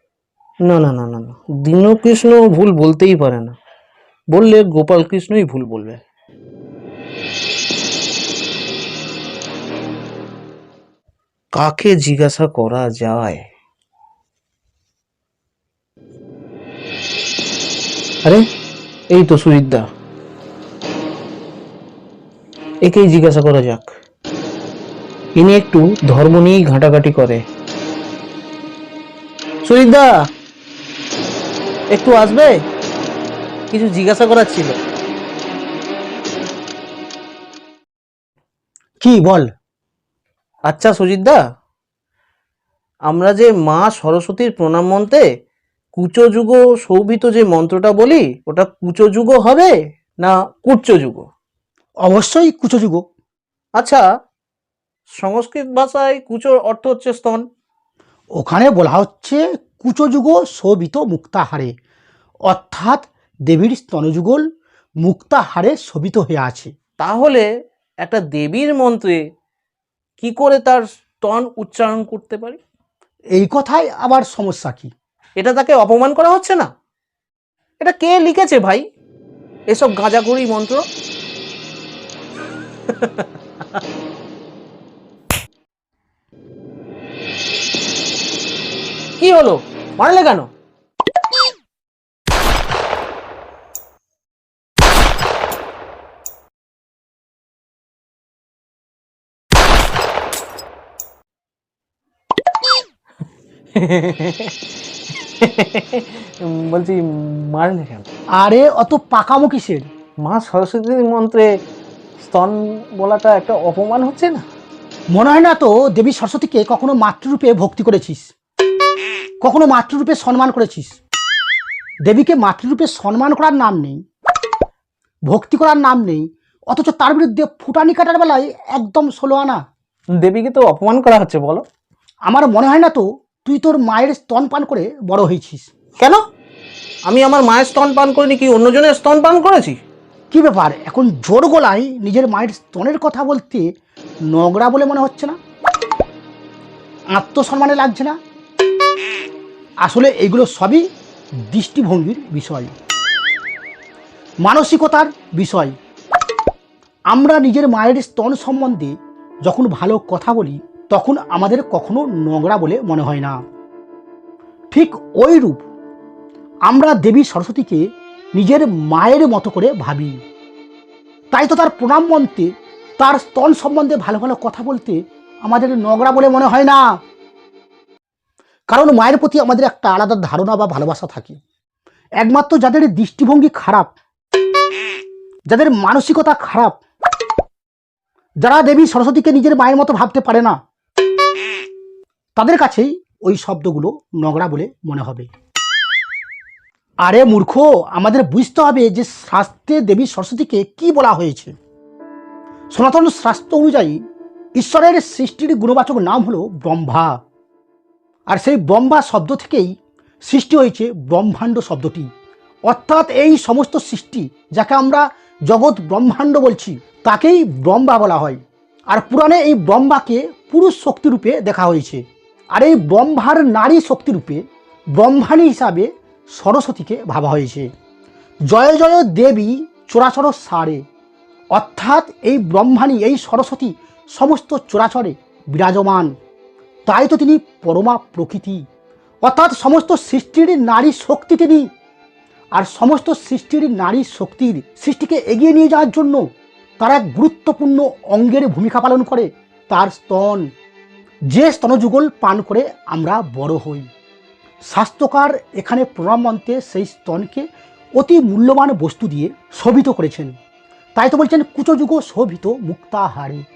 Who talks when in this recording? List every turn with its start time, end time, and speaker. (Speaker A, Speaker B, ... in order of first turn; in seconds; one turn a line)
Speaker A: 0.7-3.6
Speaker A: 4.3-6.0
Speaker A: 11.6-13.4
Speaker A: 19.1-19.9
Speaker A: 22.8-23.9
Speaker A: 25.4-27.4
Speaker A: 29.7-30.1
Speaker A: 31.9-32.5
Speaker A: 33.7-34.8
Speaker B: 39.0-39.5
Speaker A: 40.7-41.4
Speaker A: 43.1-45.2
Speaker A: 45.9-51.3
Speaker B: 52.0-53.0
Speaker A: 55.1-57.4
Speaker B: 58.4-61.7
Speaker B: 62.5-64.5
Speaker B: 65.0-66.7
Speaker A: 67.0-67.5
Speaker A: 68.0-69.2
Speaker A: 70.2-72.6
Speaker B: 73.3-74.9
Speaker A: 75.4-76.7
Speaker A: 77.8-78.8
Speaker A: 79.7-80.8
Speaker A: 82.9-83.8
Speaker A: 89.2-90.5
Speaker A: 103.8-104.5
Speaker A: 105.4-108.1
Speaker B: 108.4-109.9
Speaker A: 110.2-111.5
Speaker A: 112.2-114.5
Speaker B: 115.1-118.3
Speaker B: 119.4-121.0
Speaker B: 122.1-124.0
Speaker B: 125.3-129.6
Speaker A: 130.2-131.7
Speaker B: 132.3-135.7
Speaker A: 137.1-139.8
Speaker B: 140.3-143.7
Speaker B: 144.3-145.4
Speaker B: 147.1-148.2
Speaker B: 149.8-150.8
Speaker B: 151.5-152.7
Speaker B: 154.4-155.7
Speaker B: 157.1-158.9
Speaker B: 159.4-163.4
Speaker B: 164.7-165.6
Speaker B: 166.7-167.8
Speaker B: 168.4-170.2
Speaker B: 171.3-172.5
Speaker B: 173.0-176.8
Speaker B: 178.7-181.4
Speaker B: 182.2-183.9
Speaker B: 185.5-186.8
Speaker B: 188.4-190.6
Speaker B: 192.4-195.3
Speaker B: 197.1-201.5
Speaker B: 202.7-204.0
Speaker B: 204.6-207.1
Speaker B: 208.3-209.7
Speaker B: 210.3-212.1
Speaker B: 212.7-222.0
Speaker B: 222.5-224.4
Speaker B: 225.0-227.7
Speaker B: 228.5-230.8
Speaker B: 231.5-236.1
Speaker B: 236.9-238.6
Speaker B: 239.2-241.7
Speaker B: 242.6-246.2
Speaker B: 246.8-250.4
Speaker B: 251.3-253.9
Speaker B: 254.7-257.5
Speaker B: 258.0-260.3
Speaker B: 261.0-263.4